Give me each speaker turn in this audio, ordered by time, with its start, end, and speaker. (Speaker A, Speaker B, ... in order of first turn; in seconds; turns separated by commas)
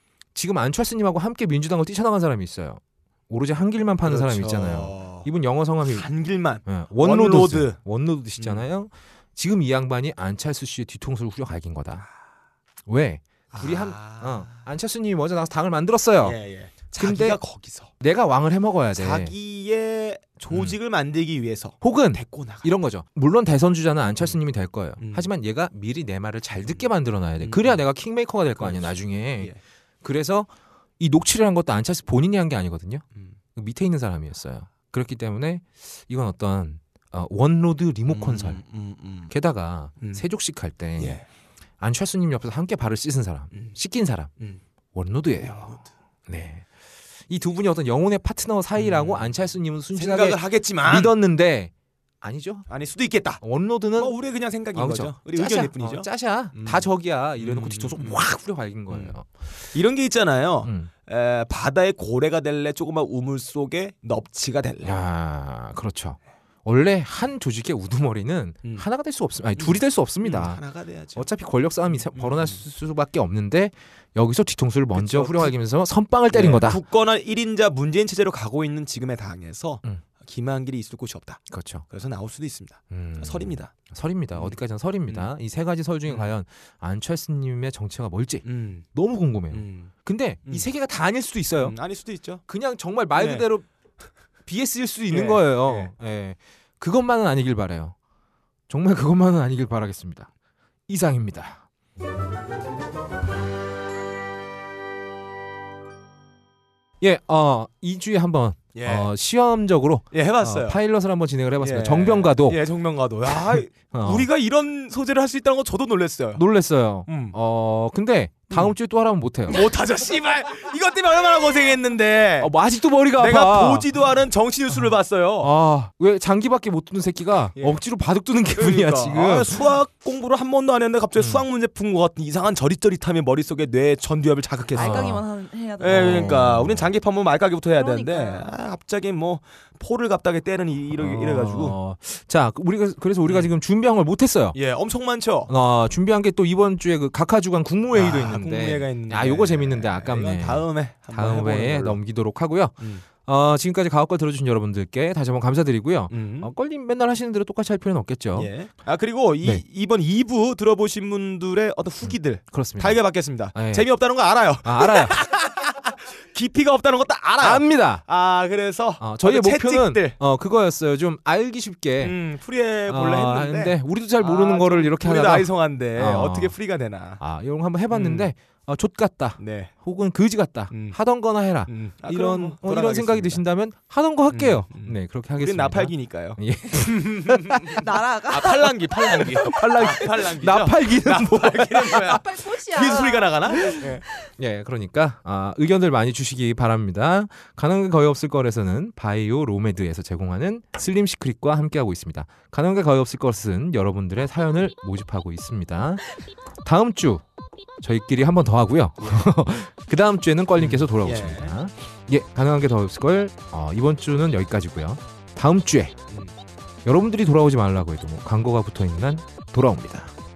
Speaker A: 0.3-6.1, Speaker B: 4.0-5.3, Speaker B: 5.9-7.8, Speaker A: 6.7-12.1, Speaker B: 8.4-8.6, Speaker A: 12.9-16.4, Speaker B: 13.5-14.5, Speaker B: 16.2-17.9, Speaker A: 17.0-17.4, Speaker A: 18.0-19.3, Speaker B: 19.0-22.7, Speaker A: 20.5-20.8, Speaker A: 21.8-33.0, Speaker B: 25.0-25.3, Speaker B: 26.6-26.9, Speaker B: 27.4-27.8, Speaker B: 28.6-29.6, Speaker A: 33.6-38.6, Speaker B: 38.1-39.3, Speaker A: 39.3-41.2, Speaker B: 40.0-40.2, Speaker B: 41.0-41.3, Speaker A: 41.8-44.3, Speaker B: 43.5-43.8, Speaker A: 44.9-45.6, Speaker B: 45.4-45.9, Speaker A: 46.3-46.7, Speaker A: 47.3-52.7, Speaker B: 48.8-49.3, Speaker B: 49.9-51.1, Speaker B: 52.7-53.4, Speaker A: 53.4-54.1, Speaker B: 54.0-58.2, Speaker A: 54.7-59.3, Speaker B: 58.9-59.1, Speaker B: 59.7-64.9, Speaker A: 60.6-60.9, Speaker A: 64.8-70.6, Speaker B: 69.6-71.3, Speaker A: 71.2-76.8, Speaker B: 71.9-72.6, Speaker B: 75.0-75.5, Speaker B: 76.3-83.8, Speaker A: 81.5-81.9, Speaker A: 82.9-91.8, Speaker B: 84.3-85.3, Speaker B: 88.4-88.9, Speaker B: 89.5-89.9, Speaker B: 91.6-92.4, Speaker A: 92.5-93.7, Speaker B: 93.2-93.5, Speaker A: 94.5-98.0, Speaker B: 95.1-95.9, Speaker A: 98.7-100.3, Speaker A: 100.9-101.6, Speaker A: 107.0-112.6, Speaker B: 108.8-109.1, Speaker B: 110.1-110.8, Speaker B: 111.6-116.4, Speaker A: 113.3-114.3, Speaker A: 116.3-119.7, Speaker B: 117.1-117.4, Speaker B: 119.5-122.5, Speaker A: 122.4-124.0, Speaker B: 123.2-125.5, Speaker A: 124.7-129.7, Speaker B: 128.5-135.2, Speaker A: 131.2-131.5, Speaker A: 134.7-135.2, Speaker C: 134.8-136.4, Speaker B: 135.8-141.8, Speaker A: 135.8-136.9, Speaker C: 137.8-138.5, Speaker A: 141.0-144.6, Speaker B: 144.6-145.5, Speaker A: 145.5-158.5, Speaker B: 147.9-152.0, Speaker B: 152.8-153.1, Speaker B: 156.1-156.5, Speaker B: 158.3-170.2, Speaker A: 162.1-163.9, Speaker A: 164.6-165.2, Speaker A: 167.4-168.1, Speaker A: 169.0-172.2, Speaker B: 172.0-177.2, Speaker A: 172.9-176.6, Speaker A: 177.2-187.8, Speaker B: 177.9-178.3, Speaker B: 179.4-179.7, Speaker B: 180.7-181.0, Speaker B: 181.7-183.4, Speaker B: 184.3-194.1, Speaker C: 187.8-189.3, Speaker A: 189.4-192.2, Speaker C: 192.1-193.8, Speaker A: 193.7-206.1, Speaker A: 206.6-207.2, Speaker A: 207.8-216.0, Speaker B: 209.0-209.3, Speaker B: 210.6-211.5, Speaker B: 216.1-216.3, Speaker A: 216.8-220.1